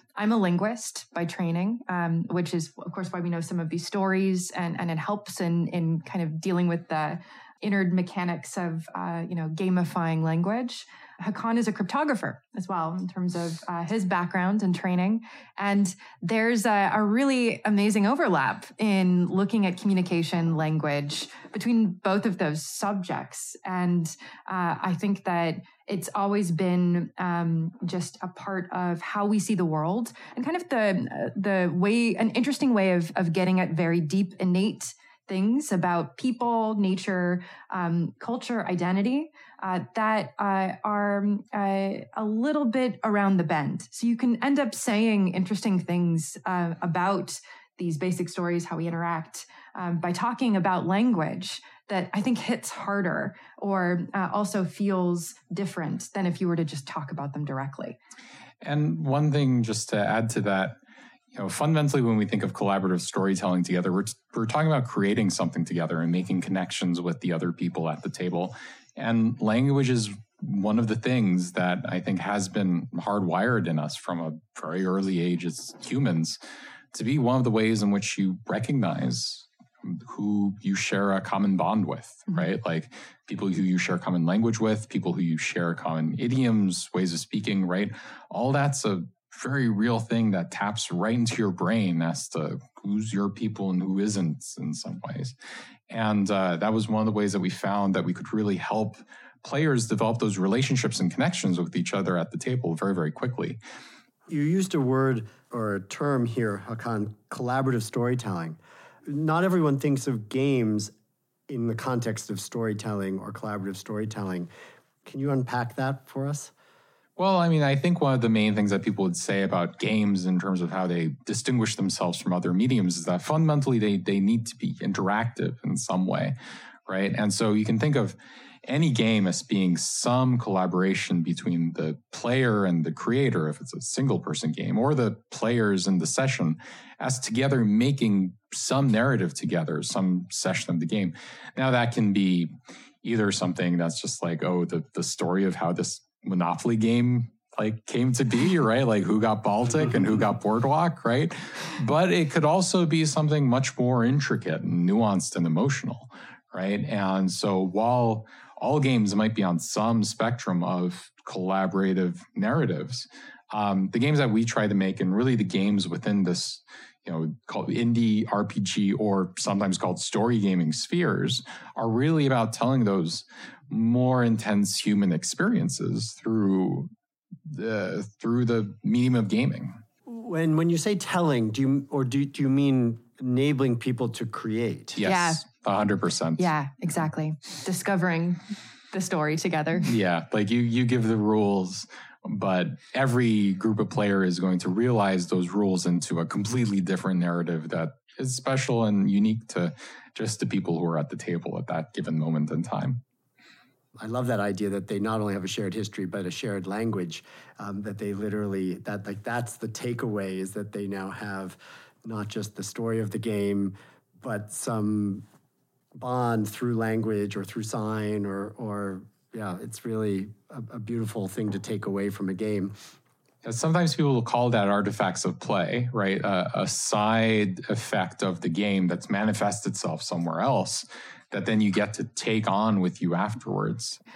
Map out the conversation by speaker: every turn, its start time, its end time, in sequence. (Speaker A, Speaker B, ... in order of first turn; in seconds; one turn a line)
Speaker A: 0.2-58.0
Speaker B: 58.6-60.8
Speaker B: 61.3-76.4
Speaker B: 76.9-95.3
Speaker B: 95.9-103.6
Speaker C: 104.3-110.9
Speaker C: 111.5-114.5
Speaker C: 115.0-116.5
Speaker B: 117.2-126.3
Speaker B: 126.9-176.9
Speaker B: 177.5-179.8
Speaker C: 180.1-185.0
Speaker B: 185.0-186.5
Speaker A: 185.0-185.4
Speaker A: 186.4-188.4
Speaker A: 188.9-189.9
Speaker B: 189.8-203.0
Speaker C: 204.0-215.2
Speaker C: 215.9-222.7
Speaker B: 223.4-234.0